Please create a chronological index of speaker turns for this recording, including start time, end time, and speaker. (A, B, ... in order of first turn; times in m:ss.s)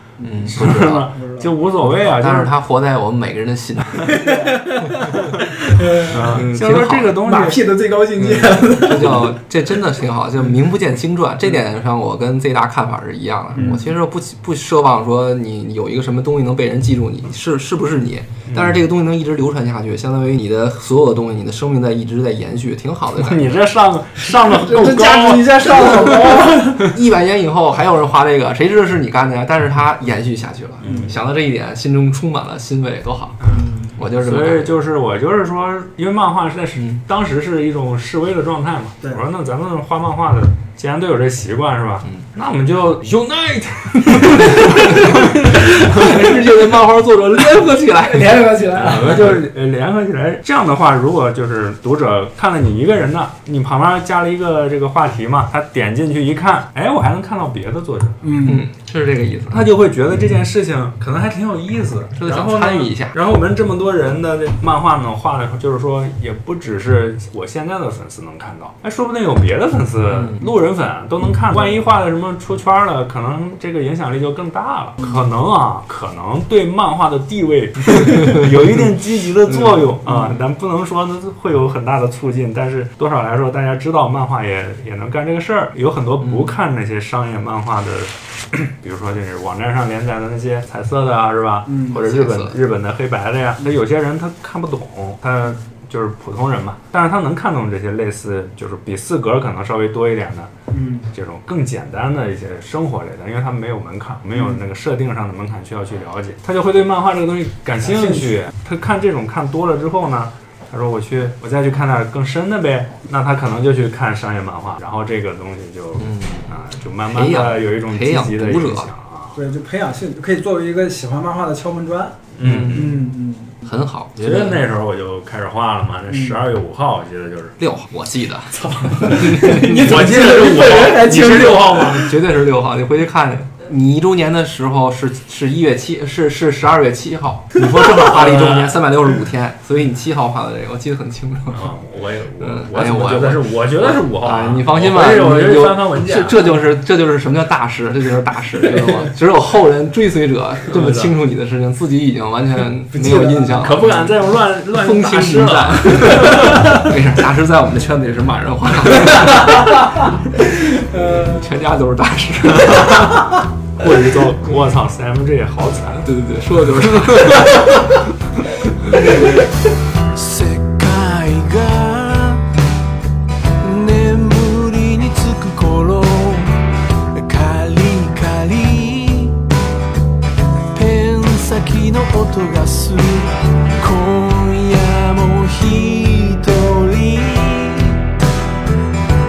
0:00.2-0:01.5 A
0:00.2-0:01.1 B
0:00.5-0:02.5 C
0:01.8-0:04.4 B
0:04.1-0:06.4 A
0:06.0-0:07.8 C
0:06.2-0:07.2 B
0:07.2-0:09.4 A
0:08.2-0:23.5 B
0:13.5-0:13.9 A
0:18.5-0:18.8 C
0:23.2-0:26.9 C
0:24.3-0:27.0 A
0:26.8-0:33.4 B
0:30.8-0:31.2 C
0:30.9-0:31.1 A
0:33.4-0:46.5 C
0:33.5-0:33.9 A
0:34.0-0:34.8 B
0:44.2-0:49.2 B
0:47.8-0:49.4 A
0:48.7-0:58.3 C
0:58.2-0:58.6 A
0:58.4-0:59.7 B
0:59.5-1:40.5 C
1:02.2-1:03.1 B
1:10.1-1:10.5 B
1:18.2-1:18.4 B
1:19.5-1:19.8 B
1:20.1-1:20.4 A
1:26.2-1:26.5 B
1:31.7-1:32.0 A
1:31.9-1:32.6 B
1:40.7-1:41.1 A
1:41.1-1:59.4 C
1:47.8-1:48.4 A
1:56.0-1:56.5 B
1:57.0-1:58.9 B
1:59.3-2:03.6 A
2:02.3-2:03.0 C
2:02.4-2:02.9 B
2:03.6-2:04.6 B
2:04.2-2:07.6 C
2:06.1-2:06.4 A
2:07.6-2:09.8 B
2:08.5-2:12.1 A
2:09.0-2:12.1 C
2:11.9-2:21.7 B
2:17.9-2:18.8 C
2:21.5-2:26.6 C
2:22.4-2:34.1 B
2:30.7-2:31.1 C
2:32.9-2:33.8 A
2:33.6-2:36.9 C
2:34.7-2:40.1 B
2:40.6-2:43.2 B
2:40.7-2:41.5 A
2:42.6-2:43.2 C
2:43.8-2:46.1 C
2:46.0-2:47.9 B
2:46.7-2:48.0 C
2:50.1-2:52.4 D
2:53.6-2:56.6 D
2:57.1-2:59.4 D
3:00.7-3:08.0 D